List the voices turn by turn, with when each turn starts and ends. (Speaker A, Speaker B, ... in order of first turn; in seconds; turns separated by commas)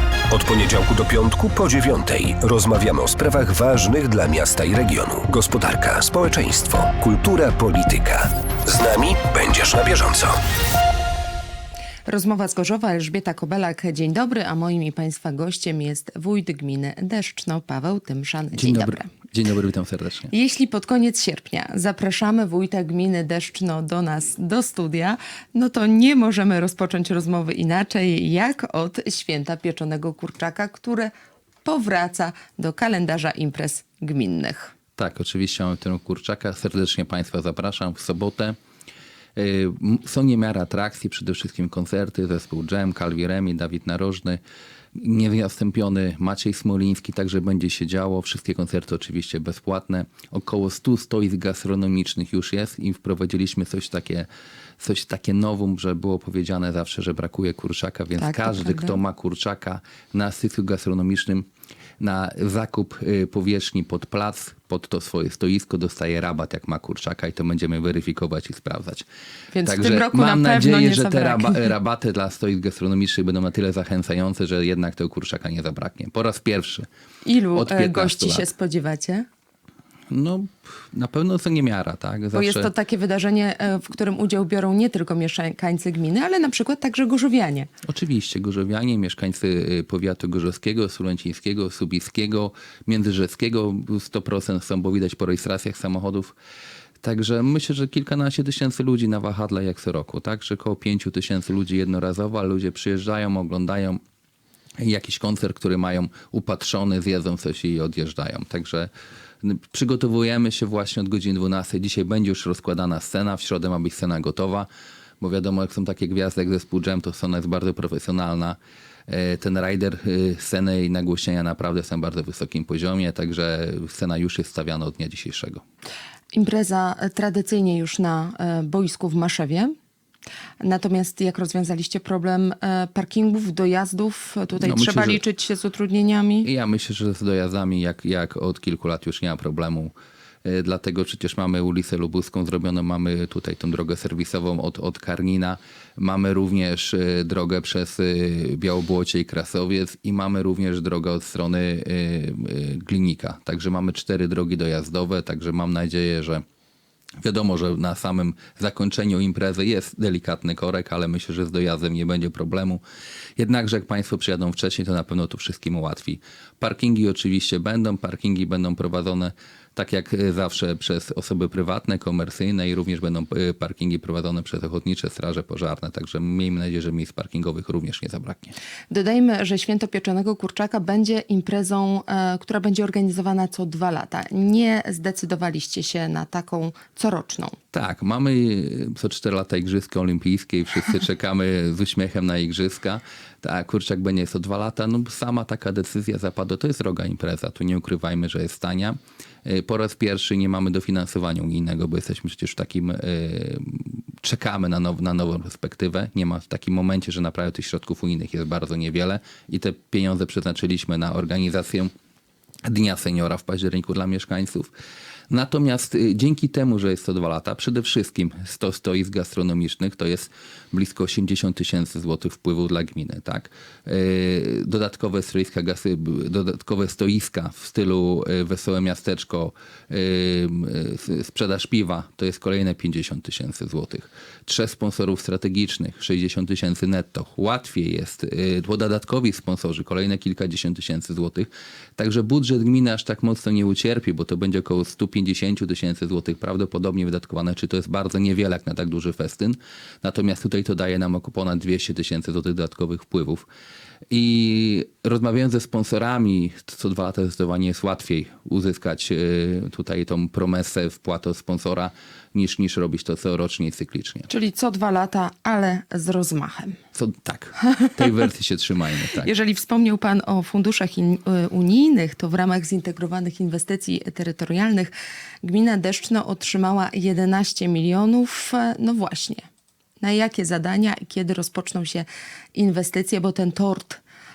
Speaker A: 0.3-10.4, Speaker B: 12.1-19.1, Speaker C: 18.5-20.3, Speaker B: 20.3-31.1, Speaker B: 31.6-34.7, Speaker C: 35.0-38.5, Speaker C: 39.4-44.4, Speaker C: 44.9-54.3, Speaker C: 54.8-61.5, Speaker B: 58.2-59.0, Speaker C: 62.0-69.0, Speaker B: 69.5-71.7, Speaker C: 69.6-76.8, Speaker B: 77.2-79.3, Speaker C: 77.5-78.5, Speaker C: 80.1-82.7, Speaker B: 82.3-87.7, Speaker C: 87.8-96.3, Speaker C: 97.0-104.0, Speaker C: 104.8-108.9, Speaker C: 109.4-114.7, Speaker C: 115.2-125.6, Speaker B: 126.3-129.7, Speaker B: 130.6-136.5, Speaker C: 134.6-135.2, Speaker C: 136.4-139.9, Speaker C: 140.4-156.4, Speaker C: 157.2-162.8, Speaker C: 163.4-178.5, Speaker B: 178.9-187.6, Speaker C: 187.7-211.9, Speaker C: 212.7-214.7, Speaker C: 215.3-253.4, Speaker C: 254.1-264.3, Speaker B: 264.3-266.8, Speaker C: 266.9-269.3, Speaker B: 269.1-279.4, Speaker B: 280.0-284.0